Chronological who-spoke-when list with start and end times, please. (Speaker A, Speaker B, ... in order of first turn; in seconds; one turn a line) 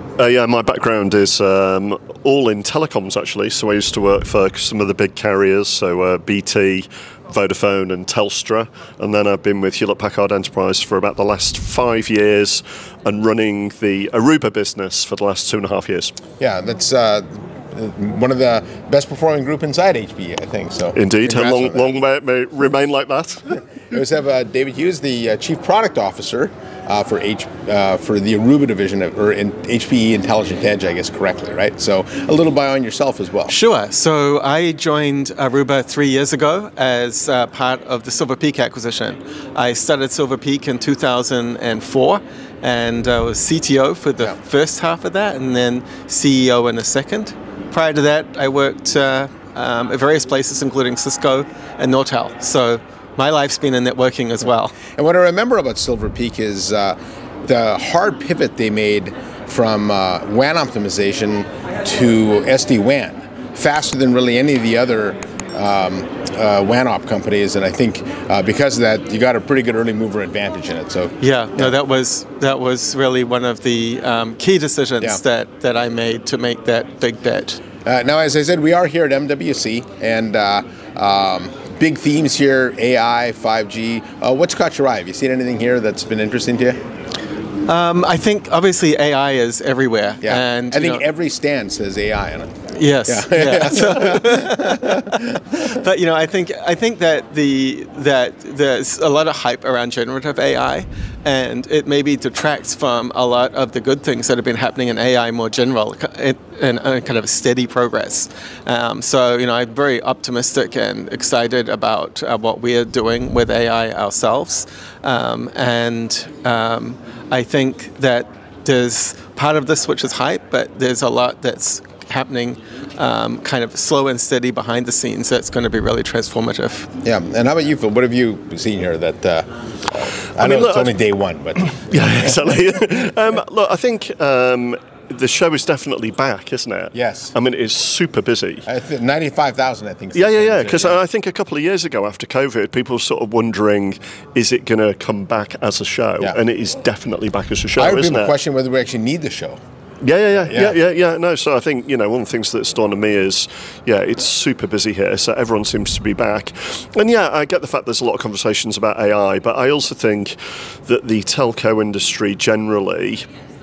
Speaker A: 0.2-16.2
Speaker B: 16.4-21.9
Speaker A: 20.9-23.5
Speaker B: 23.8-33.5
Speaker C: 33.5-54.8
Speaker B: 55.0-71.7
Speaker C: 71.2-77.6
Speaker B: 77.8-86.8
Speaker C: 87.7-91.0
Speaker B: 90.2-92.5
Speaker C: 92.7-126.9
Speaker B: 93.1-95.2
Speaker B: 127.0-132.4
Speaker A: 130.4-130.9
Speaker A: 131.9-138.7
Speaker B: 136.9-137.3
Speaker B: 138.7-141.0
Speaker A: 140.1-148.3
Speaker B: 147.8-149.6
Speaker A: 150.0-160.4
Speaker B: 150.5-150.8
Speaker A: 160.9-163.2